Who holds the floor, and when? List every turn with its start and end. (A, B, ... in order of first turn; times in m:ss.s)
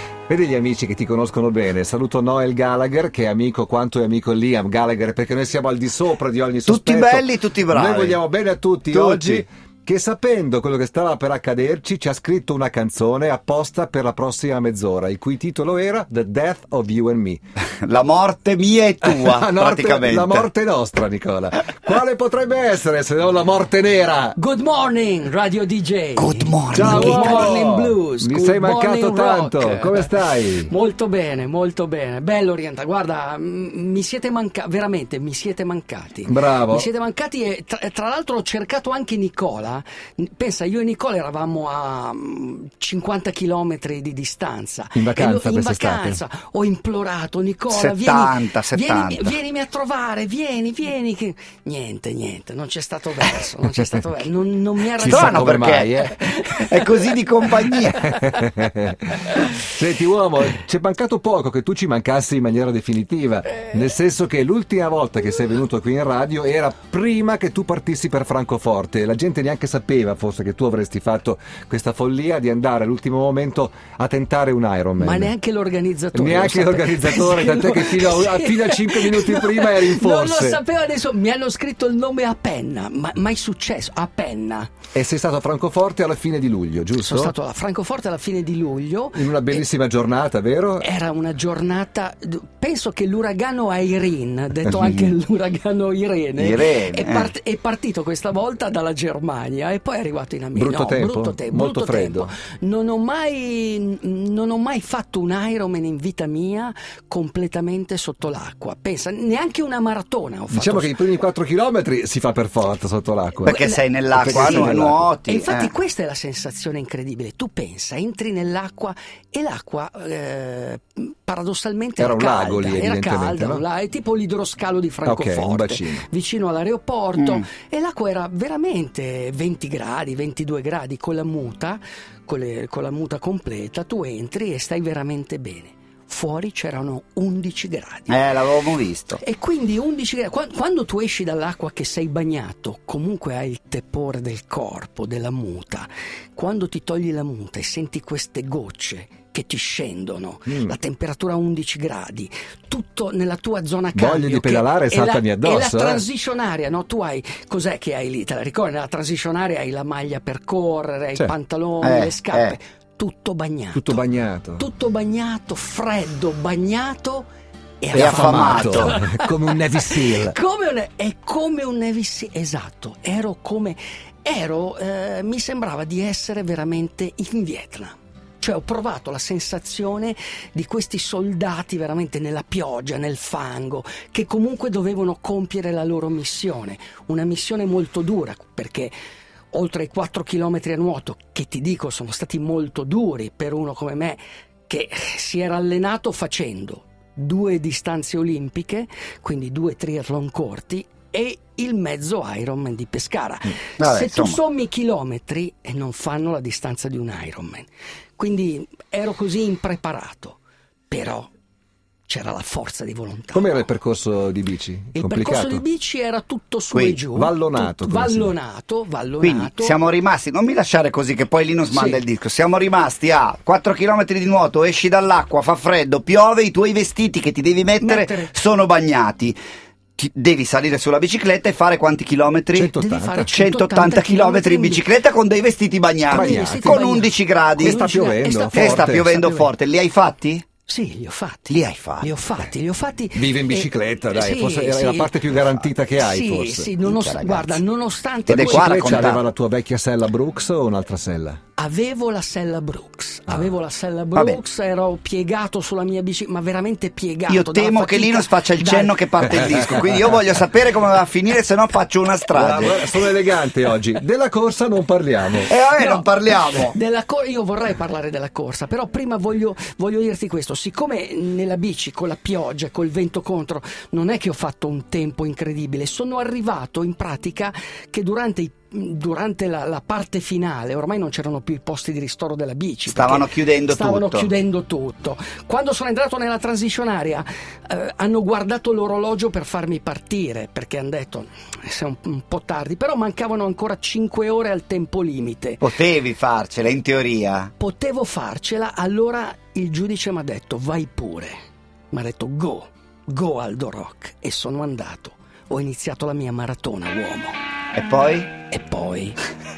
0:00.3-0:17.4 A
0:06.7-0:08.2 B
0:08.9-0:09.4 B
0:17.8-0:20.5 B
0:19.0-0:24.4 A
0:24.4-0:55.5 C
0:26.2-0:27.9 B
0:26.7-0:30.7 A
0:36.2-0:36.9 A
0:45.0-0:46.2 A
0:47.7-0:49.4 B
0:55.0-0:56.2 A
0:55.0-0:58.2 B
0:56.2-0:57.0 C
0:57.9-1:15.3 A
1:15.0-1:24.7 C
1:16.1-1:20.6 A
1:24.9-1:27.3 A
1:27.0-1:29.6 C
1:29.2-1:30.9 A
1:30.8-1:51.0 C
1:36.4-1:37.3 B
1:40.6-1:42.3 A
1:50.5-1:53.6 A
1:53.4-2:18.2 C
1:53.4-1:55.7 B
1:54.1-1:55.1 A
2:02.0-2:03.6 A
2:05.0-2:06.0 A
2:18.1-2:19.2 B
2:19.2-2:44.0 C
2:30.5-2:30.8 A
2:34.0-2:36.0 A
2:41.8-2:42.6 B
2:43.8-2:44.7 A
2:44.6-2:47.3 C
2:47.8-3:08.9 C
2:47.9-2:50.4 A
2:48.0-2:49.0 B
3:09.5-3:30.4 C
3:23.8-3:24.4 B
3:30.9-3:31.3 C
3:32.1-3:33.6 C
3:33.3-3:35.6 A
3:35.0-3:39.8 C
3:36.7-3:37.0 B
3:37.1-3:38.3 A
3:39.2-3:49.4 B
3:41.7-3:42.0 C
3:47.8-3:48.3 C
3:50.0-3:52.7 B
3:52.6-3:53.3 A
3:52.8-3:54.9 C
3:53.3-3:57.9 B
3:56.1-3:56.8 A
3:56.1-3:59.5 C
3:57.6-3:59.1 A
3:58.5-4:00.4 B
4:00.7-4:05.2 C
4:01.5-4:02.1 B
4:03.2-4:06.7 A
4:06.0-4:09.1 C
4:06.8-4:07.6 B
4:08.3-4:09.2 B
4:08.3-4:11.4 A
4:11.6-4:19.8 C
4:17.3-4:22.8 B
4:22.3-4:25.5 A
4:25.5-4:26.8 B
4:25.6-4:55.6 C
4:42.9-4:44.3 B
4:55.6-4:57.5 B
4:57.6-5:07.4 C
5:07.8-5:08.3 B
5:08.5-5:09.2 C